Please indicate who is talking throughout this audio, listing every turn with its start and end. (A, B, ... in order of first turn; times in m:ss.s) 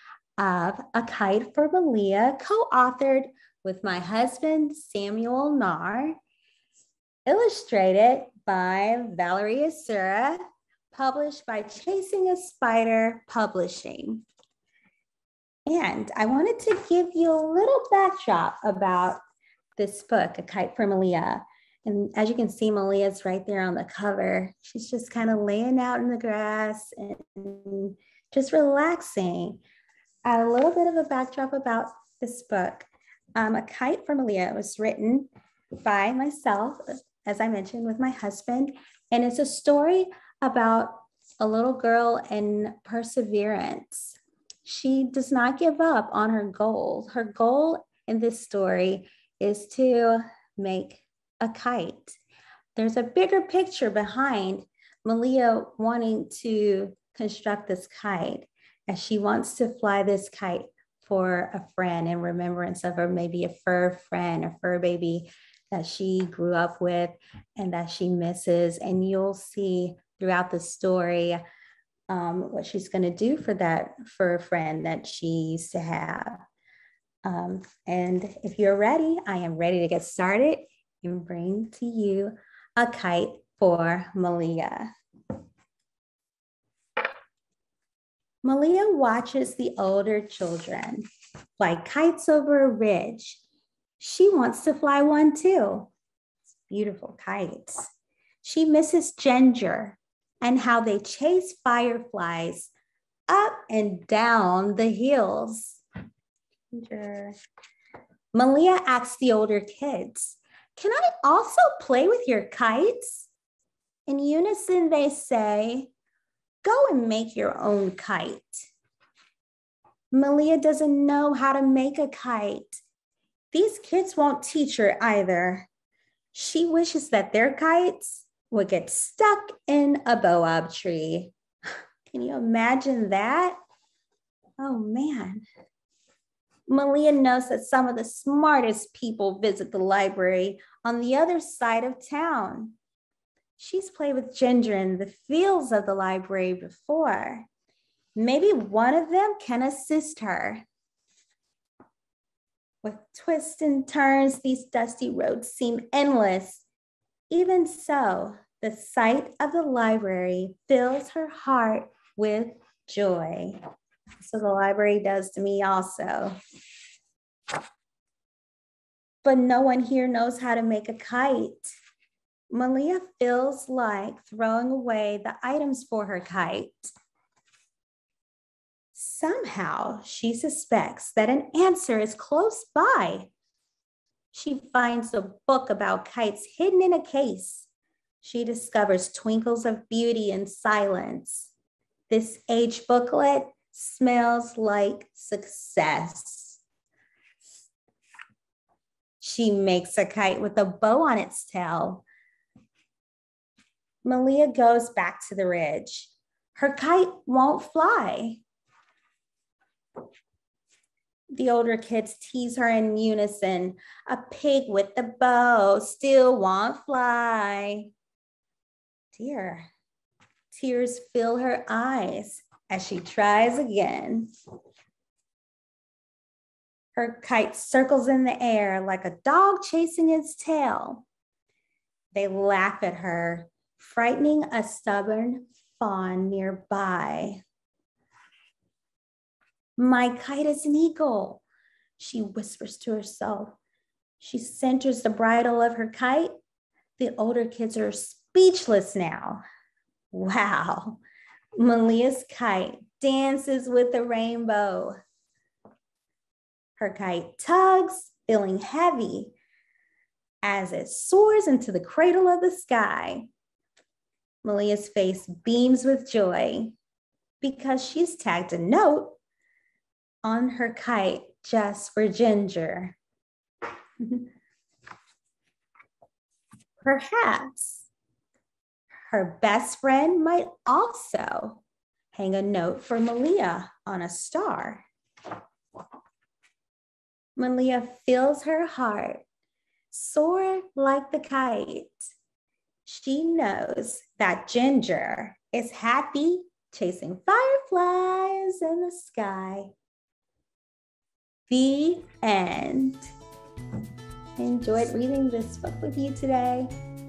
0:00.4-0:06.2 A
0:07.2-0:14.2 A
0:15.7-0:19.2 A
0:19.8-0:29.6 A
0:30.2-0:35.3 A
0:35.8-0:52.2 A
0:52.7-1:11.4 A
1:12.1-1:16.4 A
1:17.2-1:24.9 A
1:28.4-1:31.0 A
1:31.6-1:33.4 A
1:34.0-1:35.9 A
1:36.7-1:37.8 A
1:38.4-1:42.7 A
1:43.3-1:45.8 A
1:46.7-1:47.3 A
1:48.3-1:53.3 A
1:54.1-1:55.9 A
1:56.6-1:58.7 A
2:00.1-2:02.8 A
2:03.5-2:05.7 A
2:06.3-2:11.3 A
2:12.1-2:13.6 A
2:14.6-2:15.4 A
2:16.7-2:22.8 A
2:23.6-2:27.5 A
2:28.2-2:30.6 A
2:32.8-2:36.6 A
2:37.3-2:43.6 A
2:44.2-2:46.4 A
2:49.2-2:51.7 A
2:52.5-2:56.9 A
2:58.9-3:03.3 A
3:04.3-3:07.7 A
3:08.2-3:11.5 A
3:12.1-3:16.6 A
3:19.2-3:22.0 A
3:24.0-3:28.4 A
3:31.3-3:37.9 A
3:39.1-3:39.7 A
3:40.5-3:44.3 A
3:46.9-3:51.0 A
3:52.1-3:57.4 A
3:59.8-4:01.4 A
4:02.0-4:03.6 A
4:04.2-4:06.3 A
4:07.0-4:09.4 A
4:10.1-4:11.0 A
4:11.6-4:15.0 A
4:16.8-4:19.3 A
4:20.4-4:23.3 A
4:24.4-4:26.8 A
4:27.4-4:29.2 A
4:30.2-4:33.0 A
4:34.0-4:34.3 A
4:36.8-4:37.9 A
4:39.0-4:41.6 A
4:42.1-4:44.8 A
4:47.4-4:49.2 A
4:49.9-4:52.1 A
4:52.8-4:59.7 A
5:01.5-5:03.0 A
5:04.4-5:06.7 A